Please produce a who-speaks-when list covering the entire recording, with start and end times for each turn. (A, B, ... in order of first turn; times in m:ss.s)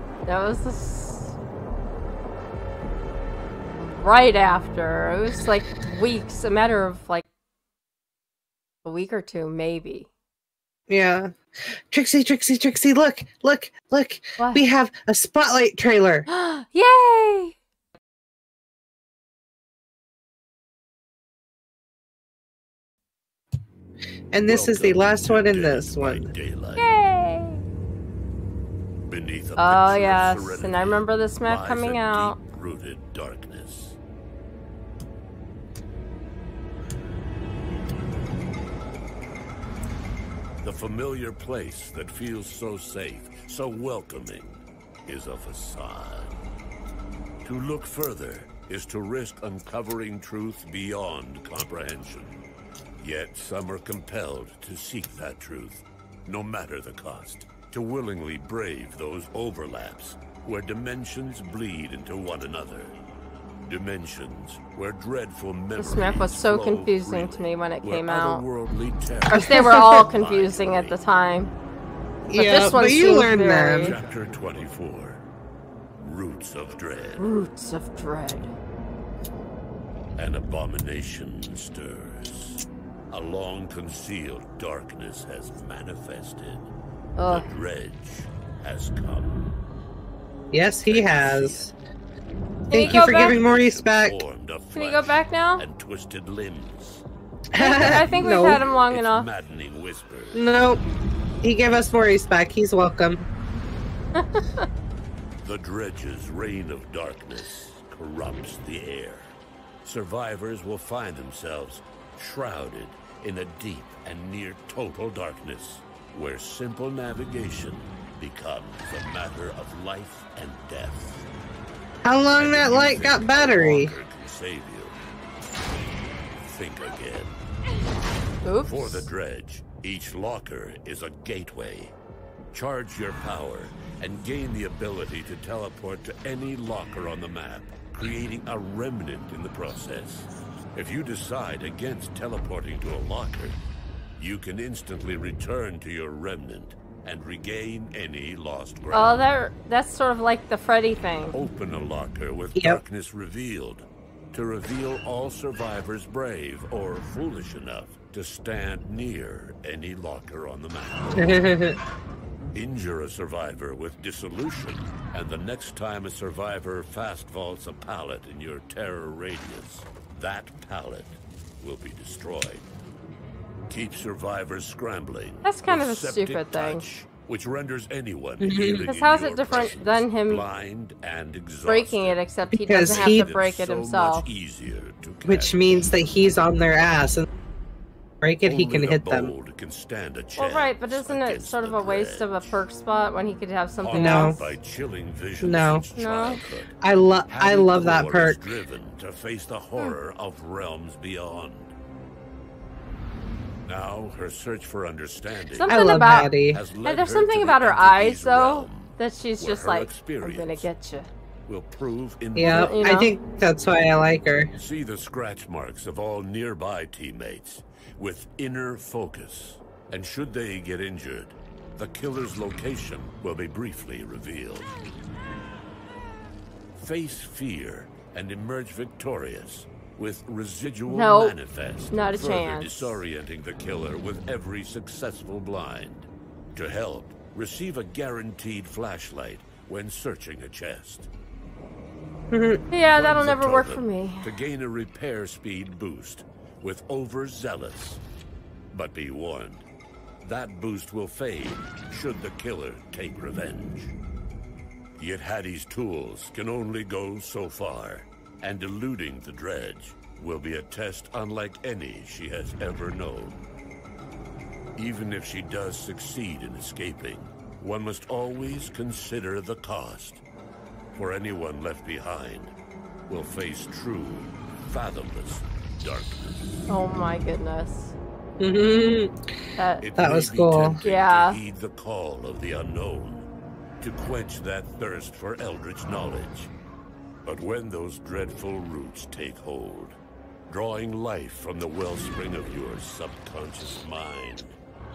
0:00.3-0:01.4 A
0:03.8-0:07.3 A
0:08.8-0:10.1 A
0:10.9-0:11.3 B
0:11.9-0:16.3 B
0:14.4-0:14.6 A
0:16.3-0:17.6 A
0:24.3-0:26.3 B
0:24.5-0:26.8 C
0:26.8-0:27.6 A
0:29.1-0:34.0 C
0:29.6-0:32.4 A
0:40.6-0:46.4 C
0:47.4-0:52.4 C
0:53.0-1:03.0 C
1:03.7-1:11.0 C
1:05.8-1:08.5 A
1:09.3-1:11.5 A
1:09.4-1:09.7 B
1:12.3-1:14.0 B
1:12.4-1:14.0 A
1:13.8-1:15.2 C
1:16.0-1:17.3 C
1:17.2-1:18.5 A
1:20.2-1:26.7 C
1:27.2-1:27.5 A
1:27.3-1:29.4 C
1:30.5-1:31.7 B
1:30.9-1:31.7 C
1:32.7-1:34.2 B
1:32.7-1:33.4 A
1:32.8-1:37.0 C
1:34.7-1:35.6 A
1:37.5-1:38.6 B
1:37.6-1:39.3 A
1:37.8-1:40.4 C
1:40.3-1:40.8 B
1:41.4-1:43.2 B
1:44.2-1:44.7 A
1:45.4-2:01.3 C
2:02.0-2:03.9 B
2:02.4-2:05.0 C
2:06.4-2:07.4 C
2:08.4-2:09.1 A
2:08.6-2:12.0 C
2:12.5-2:23.6 C
2:24.2-2:29.2 C
2:28.9-2:31.4 A
2:31.3-2:41.5 C
2:32.6-2:32.8 B
2:41.2-2:41.8 B
2:42.5-2:52.7 C
2:53.7-3:02.2 C
2:55.4-2:56.8 A
2:58.4-2:58.9 B
2:58.7-3:00.5 A
3:01.7-3:04.3 A
3:02.5-3:03.3 B
3:02.7-3:05.9 C
3:05.2-3:07.2 B
3:08.2-3:09.3 B
3:08.4-3:12.6 C
3:10.4-3:14.4 A
3:13.8-3:16.8 C
3:13.9-3:14.4 B
3:15.4-3:15.9 B
3:16.0-3:16.4 A
3:16.8-3:18.4 B
3:17.3-3:21.7 C
3:23.7-3:25.8 C
3:25.5-3:26.3 A
3:25.7-3:26.6 B
3:26.4-3:30.7 C
3:26.8-3:31.1 A
3:31.5-3:32.8 C
3:32.4-3:34.5 B
3:32.5-3:33.1 A
3:34.6-3:44.8 C
3:46.8-4:01.1 C
3:50.9-3:51.4 A
3:51.9-3:53.0 A
4:02.3-4:02.6 B
4:02.7-4:04.3 A
4:03.0-4:08.0 C
4:08.7-4:09.6 C
4:10.2-4:14.0 C
4:15.0-4:23.4 C
4:24.8-4:30.2 C
4:31.0-4:32.5 C
4:33.1-4:36.7 C
4:36.7-4:38.0 A
4:38.4-4:39.1 B
4:39.6-4:39.9 A
4:39.8-4:43.3 C
4:40.0-4:40.8 B
4:40.8-4:41.4 A
4:43.8-4:46.5 C
4:47.2-4:50.0 C
4:50.5-4:54.6 C